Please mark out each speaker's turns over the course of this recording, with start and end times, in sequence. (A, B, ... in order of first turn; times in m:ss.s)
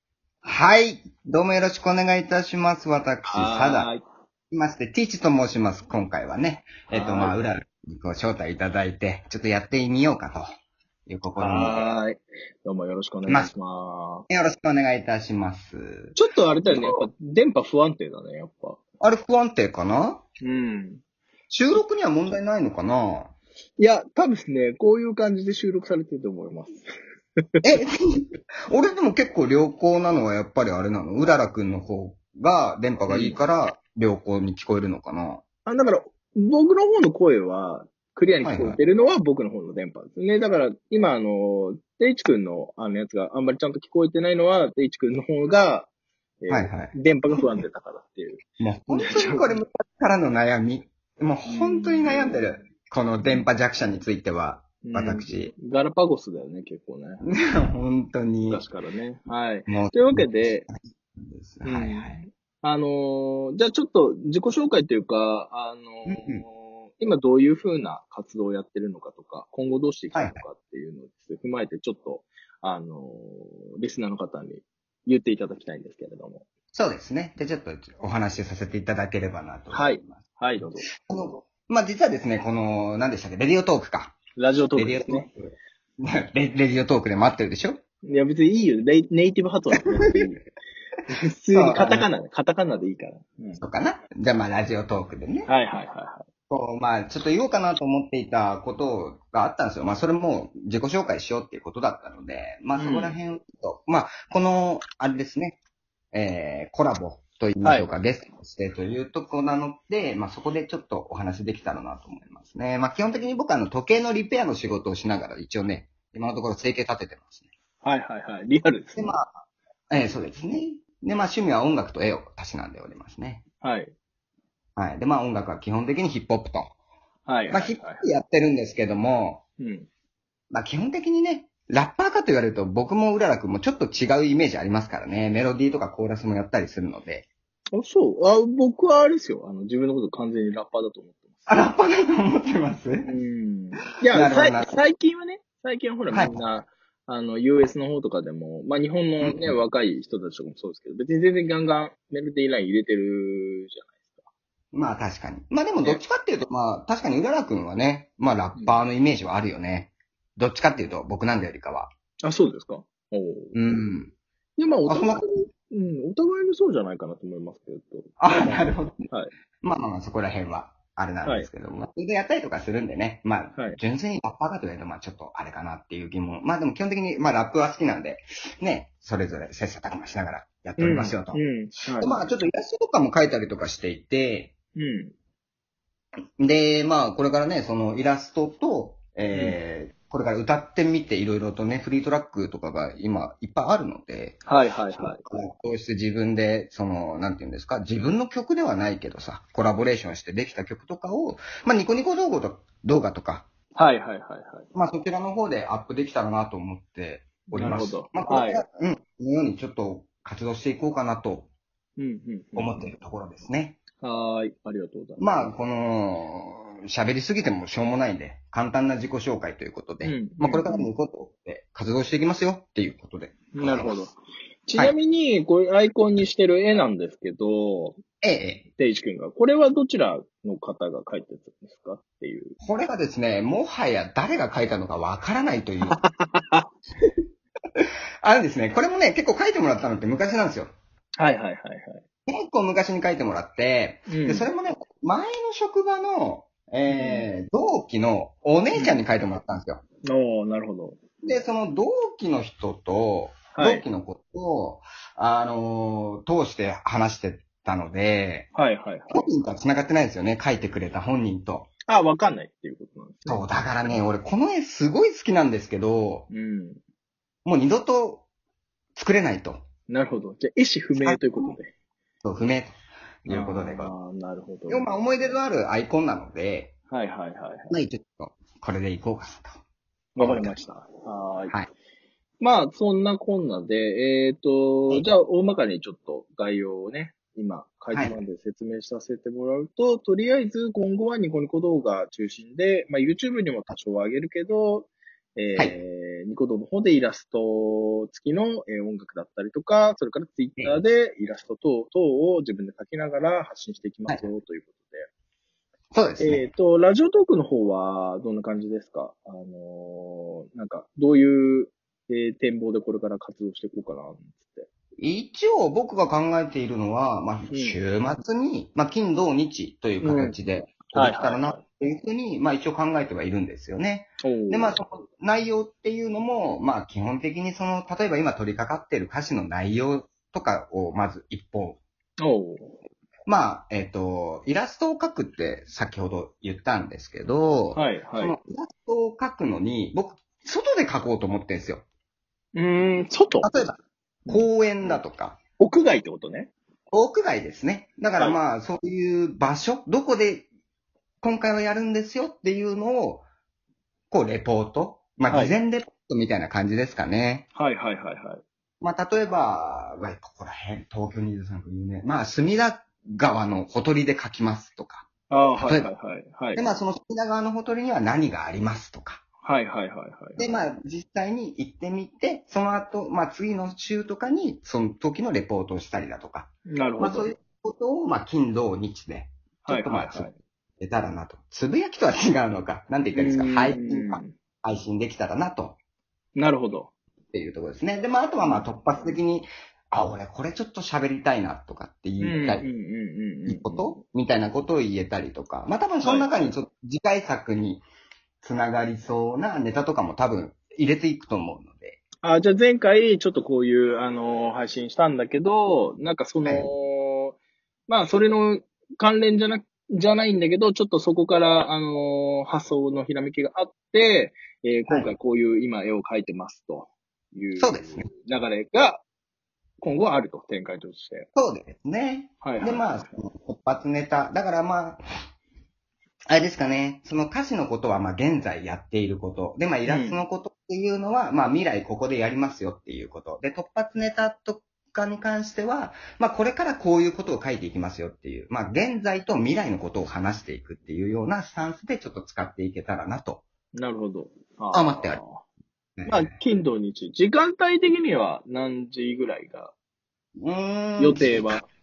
0:00.4-0:03.9 A
0:03.2-0:04.0 B
0:04.5-0:10.5 A
0:06.9-0:07.4 B
0:11.1-0:12.0 A
0:11.4-0:14.2 B
0:14.3-0:16.2 A
0:16.2-0:18.8 B
0:16.7-0:17.0 A
0:19.0-0:20.2 A
0:20.4-0:21.0 B
0:21.5-0:23.3 A
0:23.8-0:26.8 B
0:27.6-0:35.4 A
0:33.1-0:33.4 B
0:35.7-0:45.9 B
0:38.4-0:38.8 A
0:46.4-0:49.6 B
0:46.5-0:47.4 A
0:48.6-0:55.5 A
0:51.5-0:52.5 B
0:54.8-0:57.2 B
0:57.2-0:58.7 A
0:58.5-1:00.7 B
0:59.7-1:02.2 A
1:01.6-1:16.5 B
1:06.1-1:06.4 A
1:10.1-1:10.4 A
1:16.7-1:20.2 A
1:19.7-1:20.9 B
1:21.0-1:24.2 A
1:24.4-1:25.3 B
1:24.8-1:27.8 A
1:28.0-1:30.4 B
1:31.1-1:33.6 B
1:31.5-1:32.1 A
1:33.6-1:35.5 A
1:35.5-1:36.3 B
1:36.5-1:45.6 A
1:42.8-1:43.2 B
1:46.1-1:57.5 A
1:47.6-1:47.9 B
1:57.8-1:59.1 B
1:59.0-1:59.3 A
1:59.9-2:03.4 A
2:03.6-2:03.9 B
2:04.8-2:06.7 A
2:07.3-2:08.1 B
2:07.5-2:09.4 A
2:09.6-2:09.9 B
2:10.5-2:17.3 A
2:17.8-2:21.6 B
2:21.5-2:23.1 A
2:23.0-2:34.2 B
2:24.1-2:24.8 A
2:26.1-2:26.5 A
2:29.2-2:29.6 A
2:34.7-2:41.9 A
2:42.2-2:43.6 B
2:43.5-2:44.1 A
2:44.6-2:49.3 B
2:44.9-2:45.3 A
2:48.2-2:49.0 A
2:49.6-3:01.4 A
2:51.2-2:51.5 B
3:00.8-3:02.3 B
3:02.0-3:04.5 A
3:04.8-3:05.1 B
3:06.4-3:23.5 A
3:09.3-3:09.6 B
3:14.5-3:15.2 B
3:23.8-3:24.7 B
3:24.7-3:31.5 A
3:27.5-3:28.6 B
3:32.0-3:32.9 B
3:32.6-3:33.8 A
3:34.0-3:35.5 B
3:35.2-3:44.0 A
3:40.0-3:40.9 B
3:43.5-3:48.0 B
3:48.2-3:48.7 A
3:48.8-3:52.6 B
3:52.6-3:56.0 A
3:55.9-3:56.7 B
3:57.8-4:00.7 A
4:01.2-4:02.0 B
4:02.3-4:09.8 A
4:04.1-4:04.5 B
4:06.9-4:07.3 B
4:08.8-4:09.0 B
4:10.1-4:11.0 B
4:11.2-4:18.5 A
4:13.6-4:13.8 B
4:18.5-4:19.3 B
4:19.1-4:21.7 A
4:21.9-4:24.0 B
4:23.3-4:26.3 A
4:26.3-4:26.8 B
4:27.4-4:28.3 A
4:29.0-4:29.6 A
4:29.9-4:31.7 B
4:31.0-4:31.6 A
4:32.2-4:32.8 A
4:33.3-4:33.9 A
4:33.3-4:35.4 B
4:34.7-4:36.7 A
4:36.9-4:37.8 B
4:37.7-4:39.6 A
4:40.2-4:41.6 B
4:40.2-4:40.6 A
4:42.4-5:05.1 B
5:05.9-5:06.5 A
5:06.2-5:14.7 B
5:15.0-5:31.8 A
5:17.5-5:17.8 B
5:20.0-5:20.4 B
5:20.9-5:21.6 B
5:24.2-5:24.8 B
5:32.2-5:32.8 B
5:33.3-5:41.8 A
5:37.8-5:38.4 B
5:42.6-5:43.5 B
5:43.4-5:43.8 A
5:44.3-5:45.0 B
5:44.3-5:45.4 A
5:45.6-5:46.5 B
5:46.9-5:50.5 A
5:51.2-5:53.3 A
5:54.1-5:57.5 A
5:55.3-5:55.6 B
5:57.6-5:58.4 B
5:58.8-6:05.1 A
6:05.3-6:06.7 B
6:05.6-6:05.9 A
6:06.6-6:09.2 A
6:09.4-6:10.6 B
6:10.4-6:25.8 A
6:16.7-6:17.3 B
6:19.6-6:20.4 B
6:23.2-6:24.4 B
6:26.4-6:26.9 B
6:27.3-6:32.7 A
6:28.4-6:29.1 B
6:32.2-6:34.0 B
6:33.5-6:37.8 A
6:36.0-6:36.6 B
6:38.4-6:42.0 A
6:42.2-6:47.4 B
6:47.9-6:59.0 B
6:57.6-6:58.1 A
6:59.8-7:01.3 B
7:01.4-7:05.0 A
7:02.4-7:03.0 B
7:06.3-7:23.4 A
7:09.9-7:10.2 B
7:23.8-7:25.4 B
7:24.7-7:25.2 A
7:26.0-7:26.4 A
7:26.1-7:29.7 B
7:30.4-7:31.6 A
7:31.0-7:31.6 B